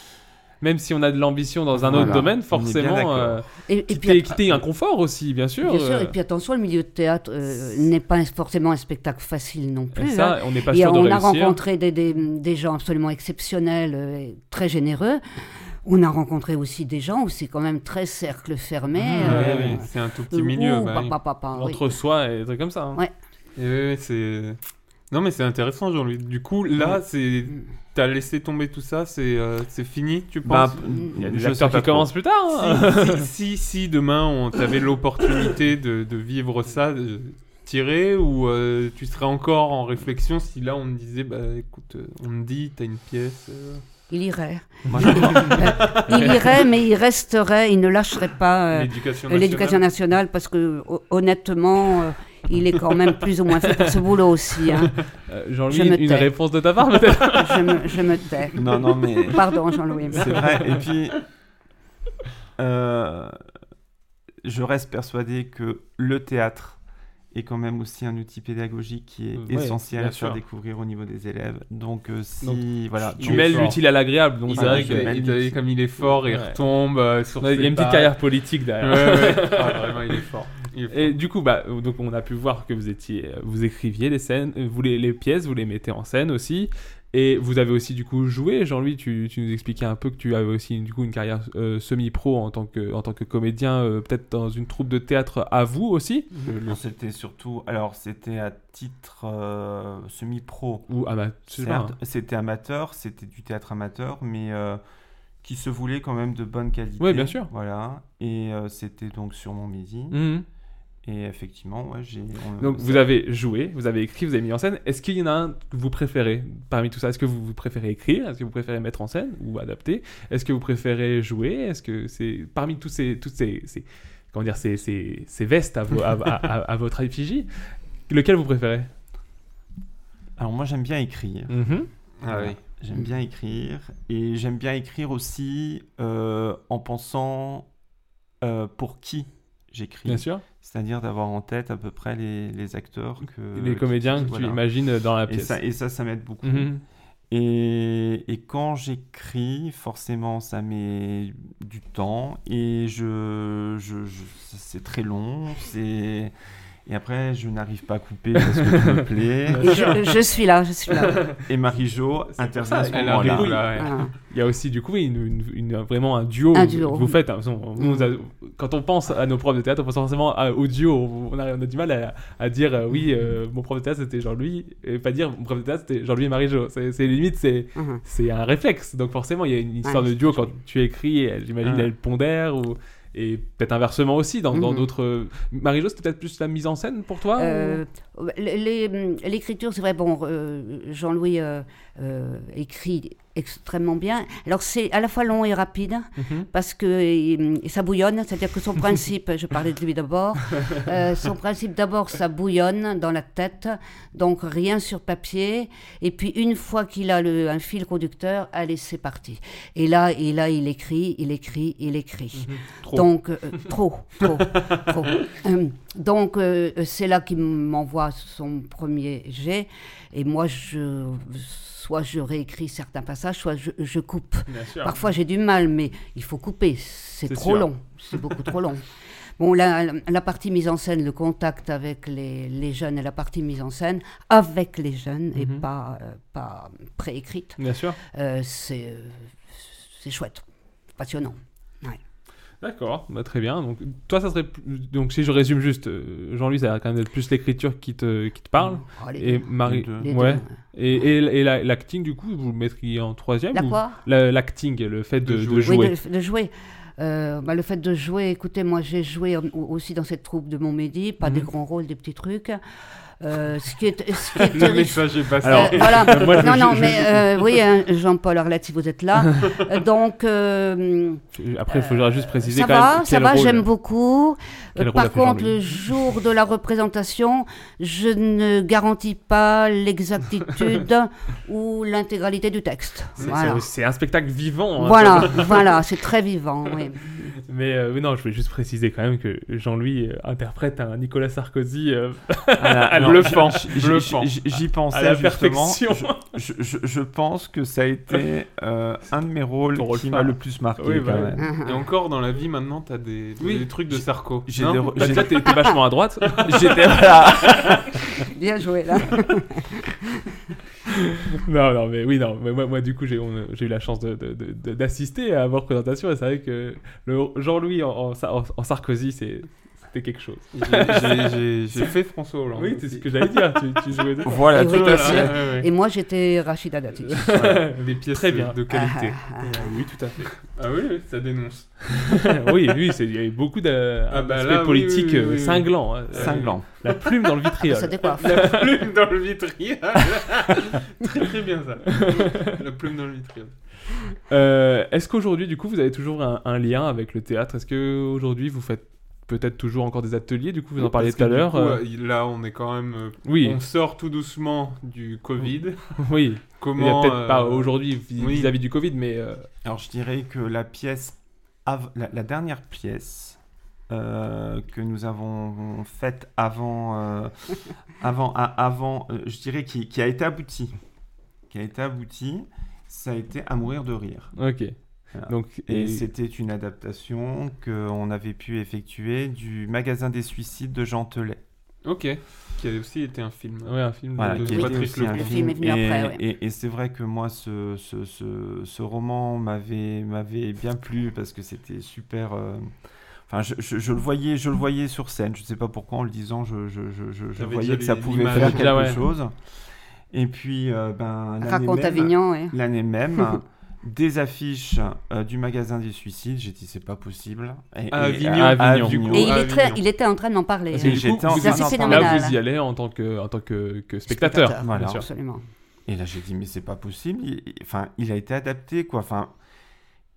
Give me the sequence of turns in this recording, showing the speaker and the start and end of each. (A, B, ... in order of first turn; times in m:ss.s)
0:00.6-0:06.1 A
0:01.8-0:03.4 B
0:02.0-0:02.2 C
0:03.7-0:04.4 C
0:05.6-0:15.2 C
0:10.0-0:11.6 A
0:15.8-0:21.8 C
0:19.0-0:19.8 A
0:19.2-0:21.1 D
0:19.4-0:19.7 B
0:21.5-0:23.0 A
0:23.6-0:24.6 D
0:25.1-0:30.8 D
0:30.4-0:32.1 B
0:31.2-0:33.3 A
0:32.5-0:43.8 D
0:44.1-0:54.9 C
0:44.9-0:45.9 B
0:45.0-0:46.4 D
0:48.7-0:49.8 D
0:55.3-0:57.9 A
0:55.7-0:56.3 C
0:57.4-0:58.6 C
0:58.6-0:59.4 B
0:59.3-1:00.3 C
1:00.1-1:01.2 B
1:02.6-1:03.3 B
1:04.4-1:06.8 B
1:07.3-1:13.8 B
1:09.4-1:10.4 A
1:12.4-1:15.3 A
1:13.2-1:13.8 D
1:14.4-1:18.2 D
1:14.5-1:15.6 B
1:16.2-1:16.6 A
1:17.4-1:20.2 A
1:18.8-1:21.1 D
1:20.9-1:36.6 A
1:36.6-1:40.9 B
1:40.9-1:41.9 A
1:41.5-1:44.8 B
1:45.4-1:50.2 B
1:47.0-1:47.5 A
1:50.1-1:50.4 A
1:51.0-1:53.1 B
1:52.6-2:07.5 A
2:08.1-2:08.9 A
2:10.4-2:11.7 B
2:11.5-2:11.9 A
2:12.2-2:12.6 D
2:12.3-2:17.6 B
2:18.4-2:24.6 B
2:20.0-2:20.4 A
2:23.6-2:25.6 A
2:25.2-2:26.7 B
2:26.4-2:26.8 A
2:27.3-2:36.3 B
2:36.9-2:39.9 B
2:38.4-2:40.0 A
2:39.6-2:41.2 C
2:41.4-2:43.7 B
2:42.6-3:07.8 A
2:42.8-2:44.0 D
2:43.7-2:44.1 C
2:46.5-2:47.2 C
2:47.8-2:48.1 C
2:57.8-2:58.0 C
2:59.8-3:00.5 C
3:04.5-3:04.9 C
3:07.4-3:48.8 C
3:16.2-3:16.5 A
3:34.3-3:34.8 D
3:44.5-3:45.0 A
3:47.3-3:47.7 A
3:49.4-3:57.6 C
3:55.4-3:55.6 A
3:57.6-3:58.0 A
3:58.1-4:00.4 C
4:01.0-4:02.0 C
4:02.6-4:15.9 A
4:08.6-4:10.5 C
4:09.6-4:10.1 B
4:13.5-4:14.0 C
4:15.2-4:15.7 D
4:15.6-4:22.6 C
4:21.2-4:21.5 A
4:23.2-4:43.6 C
4:24.4-4:26.6 D
4:25.4-4:27.2 A
4:31.3-4:33.7 A
4:34.8-4:35.6 A
4:43.2-4:43.5 D
4:43.2-4:45.7 A
4:44.8-4:47.1 C
4:47.5-4:53.7 A
4:52.6-5:01.6 B
4:53.0-4:54.3 D
4:54.9-4:56.3 A
4:59.7-5:01.3 A
5:01.4-5:01.8 C
5:01.6-5:05.1 D
5:03.4-5:03.6 A
5:03.9-5:05.6 B
5:05.0-5:07.8 A
5:06.4-5:08.0 B
5:08.3-5:09.9 C
5:11.3-5:21.9 A
5:20.5-5:23.1 D
5:22.5-5:24.5 A
5:24.2-5:25.3 B
5:24.5-5:27.3 C
5:24.6-5:25.7 D
5:27.2-5:28.6 A
5:27.4-5:29.2 D
5:28.7-5:29.7 C
5:29.4-5:30.3 A
5:30.5-5:32.0 D
5:32.0-5:38.6 A
5:34.1-5:37.0 D
5:36.1-5:36.6 B
5:37.6-5:38.3 C
5:38.2-5:43.6 D
5:42.0-5:42.5 A
5:44.3-5:51.8 A
5:50.8-5:55.8 D
5:53.2-5:53.6 A
5:56.0-5:59.5 A
5:56.6-5:58.5 D
5:59.6-6:03.4 B
6:03.9-6:10.7 B
6:11.5-6:14.5 B
6:14.4-6:16.0 A
6:15.1-6:21.4 B
6:21.8-6:25.5 D
6:23.6-6:24.8 A
6:24.2-6:32.7 B
6:24.6-6:26.2 C
6:33.3-6:39.3 B
6:37.4-6:38.8 D
6:38.4-6:39.0 A
6:40.1-6:49.5 B
6:41.4-6:42.6 C
6:47.9-6:49.8 D
6:48.3-6:49.1 A
6:49.1-6:52.4 C
6:50.7-6:55.0 A
6:50.8-6:52.3 B
6:54.1-6:55.4 C
6:54.6-6:55.0 B
6:55.9-6:59.3 B